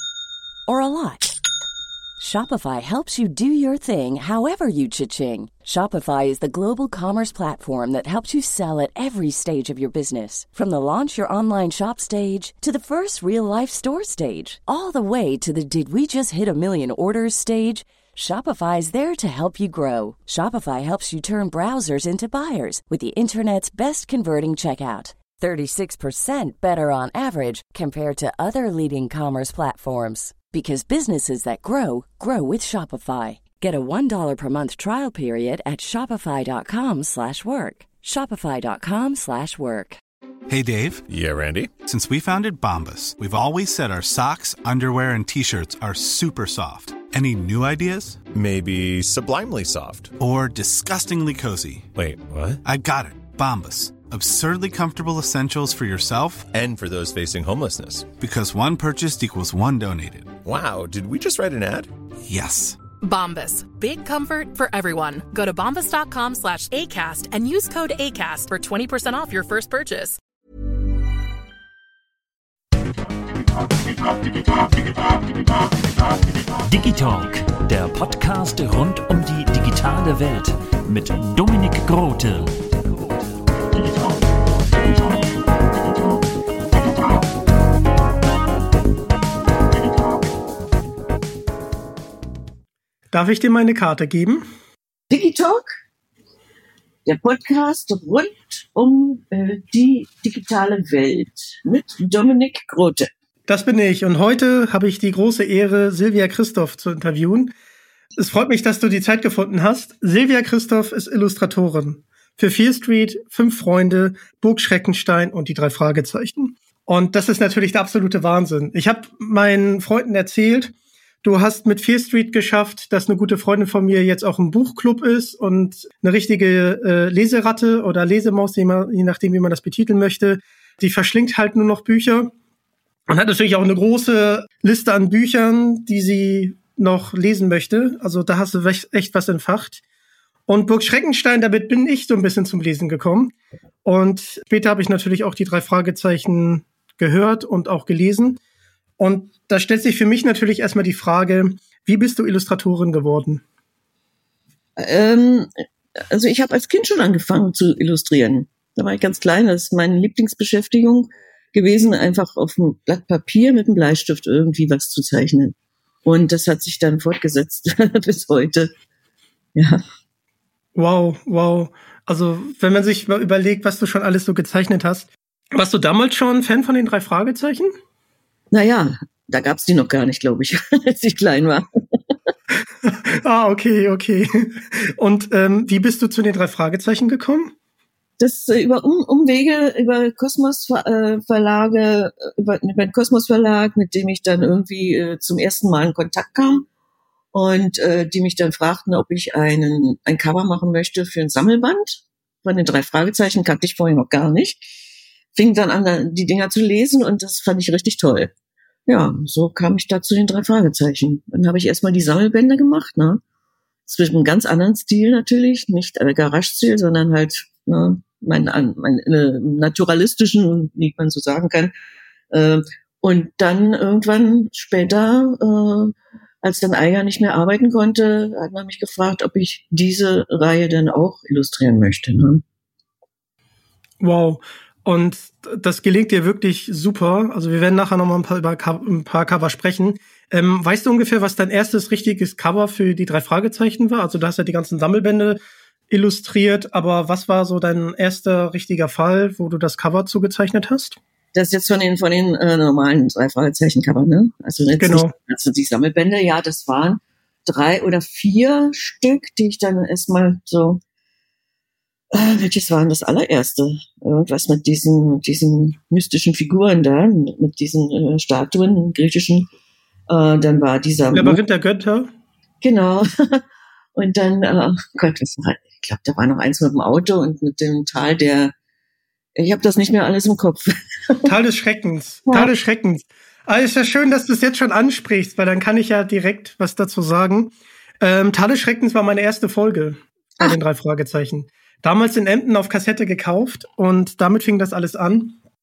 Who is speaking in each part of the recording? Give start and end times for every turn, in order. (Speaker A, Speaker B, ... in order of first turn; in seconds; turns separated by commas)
Speaker A: 0.7-1.3, Speaker A: 2.2-40.0, Speaker B: 40.5-41.0, Speaker C: 41.1-41.8, Speaker B: 41.8-48.2, Speaker C: 48.3-50.1, Speaker B: 50.2-51.9, Speaker C: 52.0-52.6, Speaker B: 52.6-56.5, Speaker C: 56.5-58.1, Speaker B: 58.2-60.3, Speaker C: 60.5-61.9, Speaker B: 62.2-62.8, Speaker D: 63.0-70.2, Speaker E: 76.5-82.6, Speaker F: 93.1-94.5, Speaker G: 95.1-95.8, Speaker G: 97.0-103.1, Speaker F: 103.5-107.5, Speaker F: 108.2-132.3, Speaker F: 133.1-139.8, Speaker F: 140.5-148.4, Speaker F: 149.0-153.4, Speaker G: 154.8-155.5, Speaker G: 156.1-168.7, Speaker G: 169.6-169.8, Speaker F: 170.8-177.8, Speaker G: 178.5-182.0, Speaker F: 182.6-187.5, Speaker G: 188.2-196.7, Speaker G: 197.3-204.7, Speaker G: 205.3-208.3, Speaker G: 208.9-213.2, Speaker G: 213.9-221.7, Speaker G: 222.3-232.4, Speaker F: 234.0-251.0, Speaker G: 251.3-260.8, Speaker F: 254.8-255.1, Speaker G: 262.1-269.5, Speaker G: 270.1-271.4, Speaker F: 271.1-272.1, Speaker G: 272.6-273.4, Speaker G: 274.0-278.5, Speaker G: 279.4-281.3, Speaker F: 281.2-295.4